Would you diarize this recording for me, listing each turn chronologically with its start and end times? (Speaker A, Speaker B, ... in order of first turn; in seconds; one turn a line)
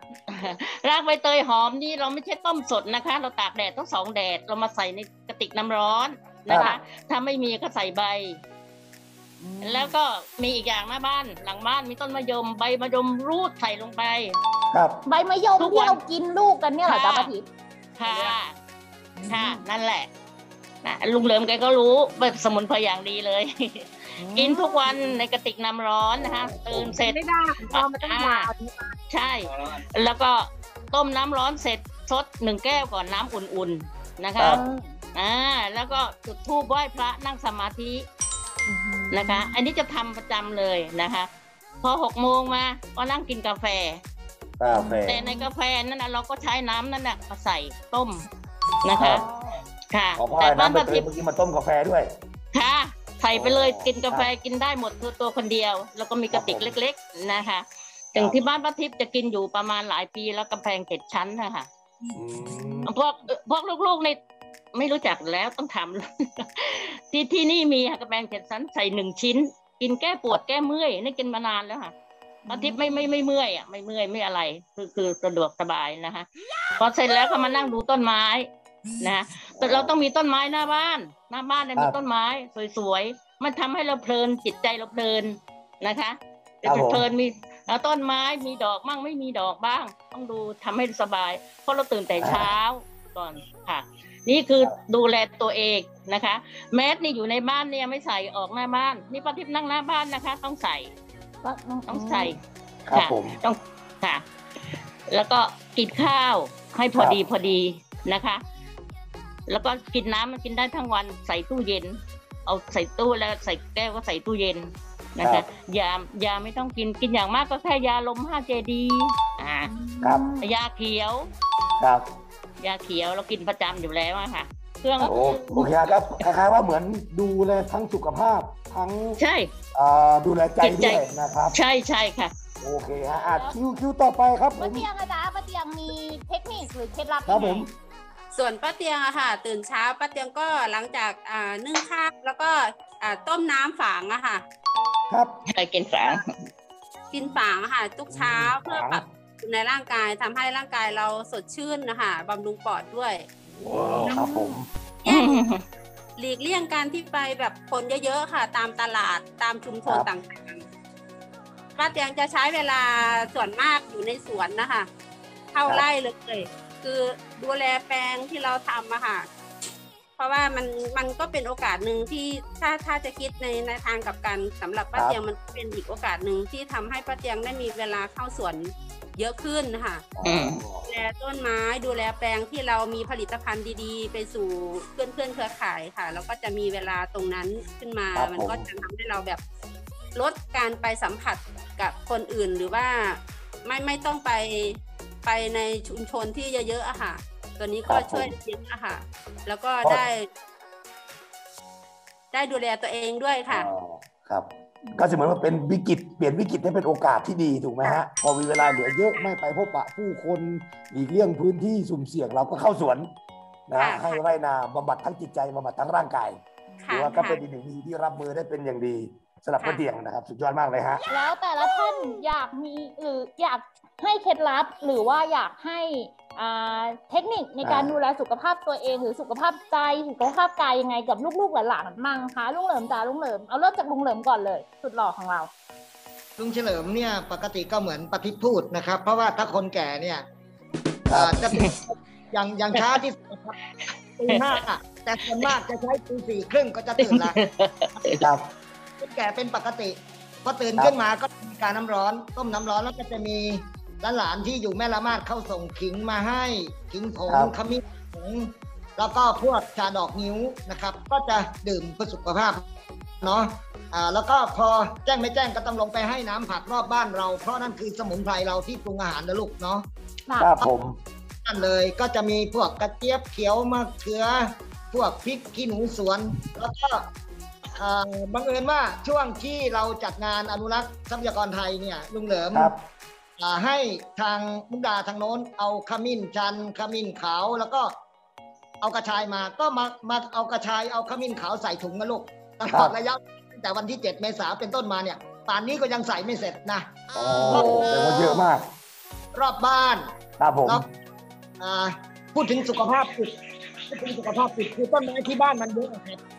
Speaker A: 0.3-8.4
Speaker B: 6.5-6.7
Speaker C: 9.4-10.0
Speaker A: 9.6-14.4
Speaker B: 14.7-15.0
Speaker C: 15.1-17.4
Speaker A: 15.6-16.0
Speaker A: 16.9-17.3
Speaker A: 18.0-18.5
Speaker C: 19.2-19.6
Speaker A: 19.3-20.1
Speaker A: 20.8-27.2
Speaker C: 24.2-25.1
Speaker B: 26.2-26.9
Speaker D: 27.0-28.5
Speaker A: 27.7-28.5
Speaker A: 29.1-34.6
Speaker C: 34.5-35.0
Speaker A: 35.1-38.0
Speaker C: 38.7-39.5
Speaker A: 39.1-41.3
Speaker A: 41.8-44.0
Speaker B: 44.6-45.2
Speaker C: 44.7-45.5
Speaker A: 45.0-48.2
Speaker A: 48.8-49.2
Speaker B: 49.0-49.3
Speaker C: 49.0-49.6
Speaker A: 49.9-51.1
Speaker B: 50.2-52.1
Speaker A: 52.5-61.7
Speaker B: 53.3-54.3
Speaker B: 56.3-56.8
Speaker B: 62.1-62.9
Speaker C: 62.5-62.9
Speaker A: 62.9-64.2
Speaker A: 64.7-71.9
Speaker C: 72.5-72.9
Speaker A: 72.5-76.3
Speaker A: 76.8-78.5
Speaker A: 79.0-100.9
Speaker B: 79.6-80.0
Speaker B: 86.7-87.1
Speaker B: 92.2-92.5
Speaker C: 101.4-102.4
Speaker A: 101.9-102.4
Speaker B: 102.8-103.4
Speaker A: 102.9-108.4
Speaker A: 109.5-119.7
Speaker C: 119.7-120.5
Speaker A: 120.4-121.3
Speaker B: 121.8-122.1
Speaker A: 122.6-126.2
Speaker B: 125.0-129.2
Speaker A: 129.2-129.5
Speaker B: 129.8-131.6
Speaker A: 130.6-131.0
Speaker A: 131.5-132.3
Speaker B: 132.6-134.9
Speaker C: 133.3-133.6
Speaker C: 134.6-137.7
Speaker B: 137.3-137.7
Speaker D: 138.3-144.4
Speaker B: 145.1-145.4
Speaker A: 145.5-146.3
Speaker D: 147.1-153.3
Speaker B: 148.1-149.0
Speaker B: 153.6-154.7
Speaker C: 154.1-154.6
Speaker D: 155.1-155.4
Speaker A: 155.1-155.6
Speaker D: 156.2-160.7
Speaker D: 161.8-164.9
Speaker D: 165.5-169.3
Speaker D: 170.2-180.1
Speaker B: 180.2-180.9
Speaker A: 180.2-180.6
Speaker D: 180.8-189.4
Speaker B: 188.2-188.7
Speaker D: 190.1-200.3
Speaker B: 197.9-198.3
Speaker D: 202.3-203.7
Speaker B: 203.5-213.1
Speaker D: 208.6-209.3
Speaker B: 213.7-221.0
Speaker D: 213.8-214.2
Speaker D: 216.8-217.4
Speaker C: 221.1-235.5
Speaker B: 227.6-227.9
Speaker E: 236.4-240.2
Speaker B: 241.1-241.4
Speaker E: 241.1-243.6
Speaker E: 244.2-247.4
Speaker A: 244.3-244.6
Speaker A: 247.0-248.2
Speaker B: 248.1-248.5
Speaker E: 249.0-262.7
Speaker B: 257.3-257.5
Speaker E: 263.2-269.9
Speaker B: 270.4-271.0
Speaker E: 271.4-277.1
Speaker E: 277.8-282.7
Speaker B: 282.5-282.9
Speaker E: 283.4-287.9
Speaker E: 288.8-296.9
Speaker B: 292.7-292.9
Speaker B: 297.1-298.7
Speaker E: 297.4-298.5
Speaker E: 299.4-300.9
Speaker B: 300.4-300.9
Speaker E: 301.6-306.2